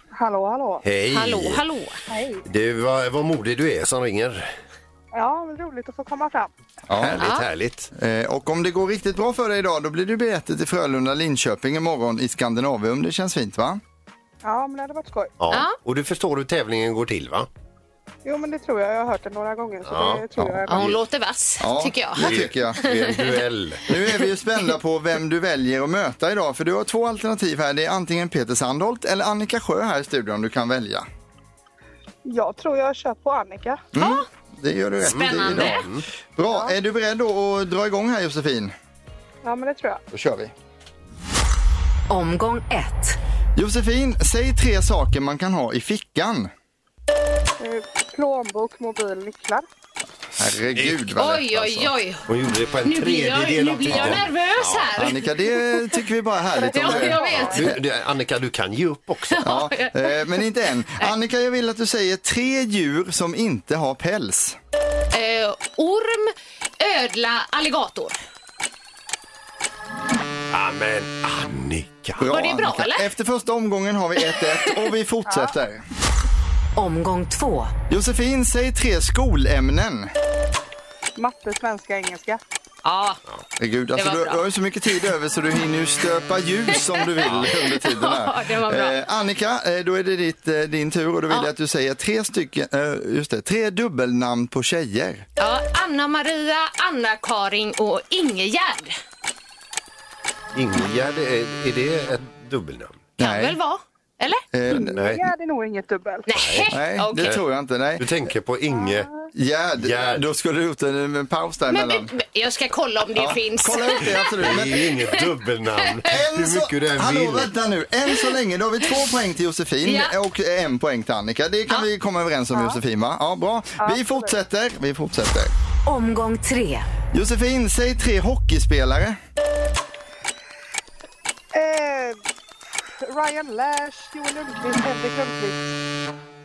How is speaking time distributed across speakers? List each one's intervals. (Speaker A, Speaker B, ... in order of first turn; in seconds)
Speaker A: 0.1-0.8, 2.1-2.4, 5.1-6.5, 14.4-15.3, 18.2-20.8, 32.2-33.8, 36.5-36.7, 39.4-40.0, 47.6-49.6, 56.5-57.7, 75.3-75.5, 81.2-82.4, 104.7-106.3, 123.8-124.3, 131.5-132.2, 133.0-135.7
Speaker B: 0.8-1.6, 2.4-4.5, 7.0-7.9, 15.4-17.5, 19.9-20.2, 22.2-23.9, 35.0-36.0, 50.7-51.0, 52.3-54.9, 57.5-59.5, 70.5-72.2, 100.5-103.0, 104.9-105.2, 106.3-107.4, 108.0-109.1, 109.8-110.2, 114.4-117.5
Speaker C: 1.1-2.0, 7.2-7.5, 20.7-23.2, 34.0-34.2, 35.1-35.9, 51.2-52.3, 52.8-55.3, 56.7-57.6, 59.3-60.2, 65.1-68.2, 72.3-73.1, 82.8-83.2, 84.0-84.4, 87.5-89.0, 95.4-99.0, 103.2-104.4, 106.3-107.3, 111.7-114.3, 119.8-120.1
Speaker D: 6.9-7.2, 7.9-13.8, 21.6-22.8, 23.9-31.1, 33.9-38.7, 40.1-40.5, 43.5-46.5, 50.4-51.9, 53.9-54.2, 55.0-57.8, 59.4-64.6, 72.2-75.8, 77.9-80.1, 83.6-95.2, 103.2-103.6, 104.5-105.0, 106.7-108.1, 109.3-112.1, 113.1-115.0, 116.0-125.5, 127.1-129.2
Speaker E: 42.1-43.2, 76.8-77.7, 125.8-126.9